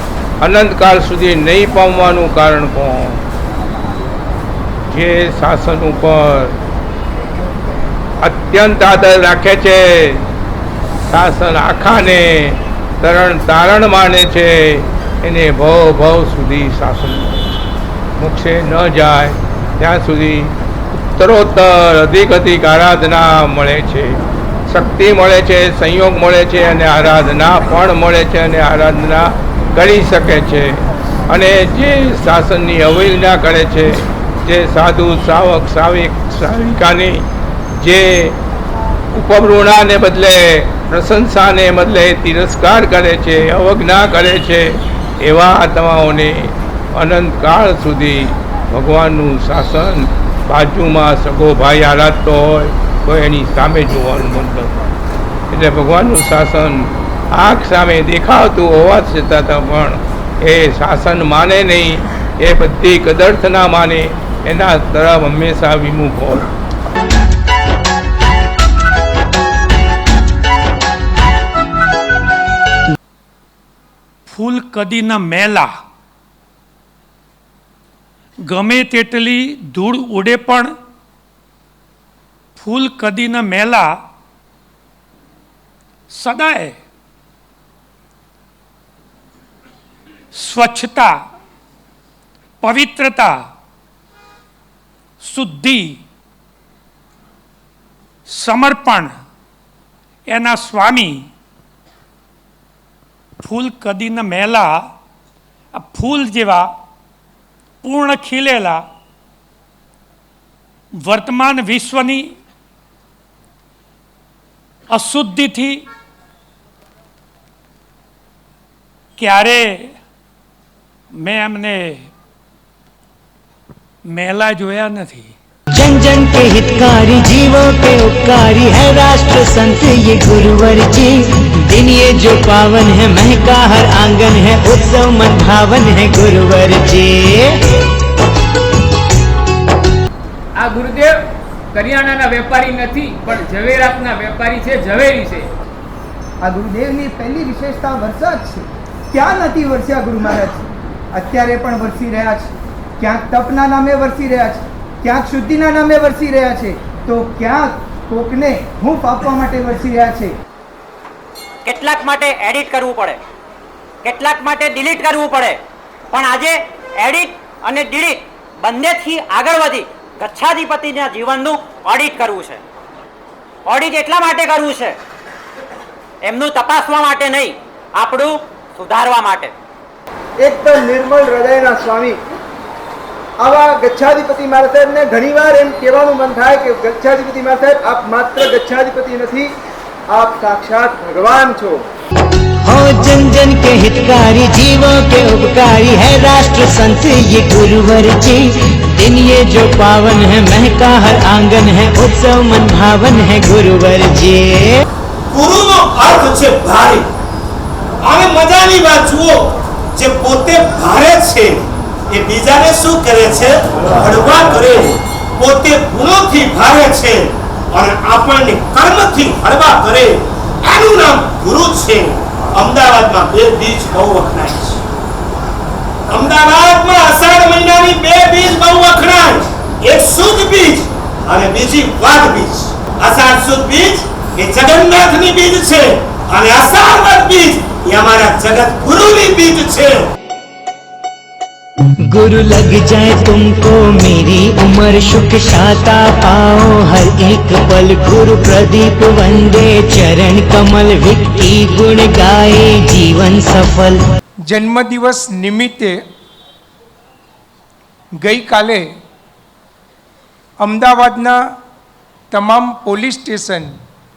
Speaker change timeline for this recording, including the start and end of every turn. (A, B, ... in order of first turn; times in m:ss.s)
0:00.4-0:03.2 A
0:04.9-0:06.5 A
0:08.2-0:10.2 A
0:11.1-0:17.5 A
0:18.2-0:20.5 A
0:21.2-0:37.2 A
0:37.8-0:38.4 A
0:39.2-0:44.7 A
0:45.2-0:54.7 A
0:55.5-1:06.5 A
1:14.3-1:15.7 B
1:18.5-1:20.8 B
1:22.6-1:24.0 B
1:26.1-1:26.8 B
1:30.3-1:31.2 B
1:32.6-1:33.5 B
1:35.2-1:36.0 B
1:38.3-1:39.1 B
1:40.3-1:41.3 B
1:43.4-1:44.9 B
1:45.8-1:46.8 B
1:47.8-1:48.9 B
1:51.0-1:52.4 B
1:54.9-1:55.8 B
1:59.2-1:59.9 B
2:01.1-2:02.1 B
2:04.1-2:05.3 B
2:05.7-2:17.6 C
2:20.6-2:21.2 D
2:21.7-2:25.5 D
2:26.4-2:40.4 E
2:41.6-2:43.2 F
2:44.0-2:45.6 F
2:46.1-2:52.6 F
2:53.7-2:55.0 F
2:56.2-2:59.5 F
3:00.4-3:02.2 E
3:03.4-3:09.5 E
3:10.1-3:11.8 E
3:12.6-3:24.8 C
3:25.3-3:27.1 G
3:28.0-3:44.8 G
3:46.1-4:00.1 G
4:02.1-4:14.0 C
4:14.5-4:16.0 H
4:18.2-4:18.9 H
4:20.6-4:21.4 H
4:22.3-4:23.7 H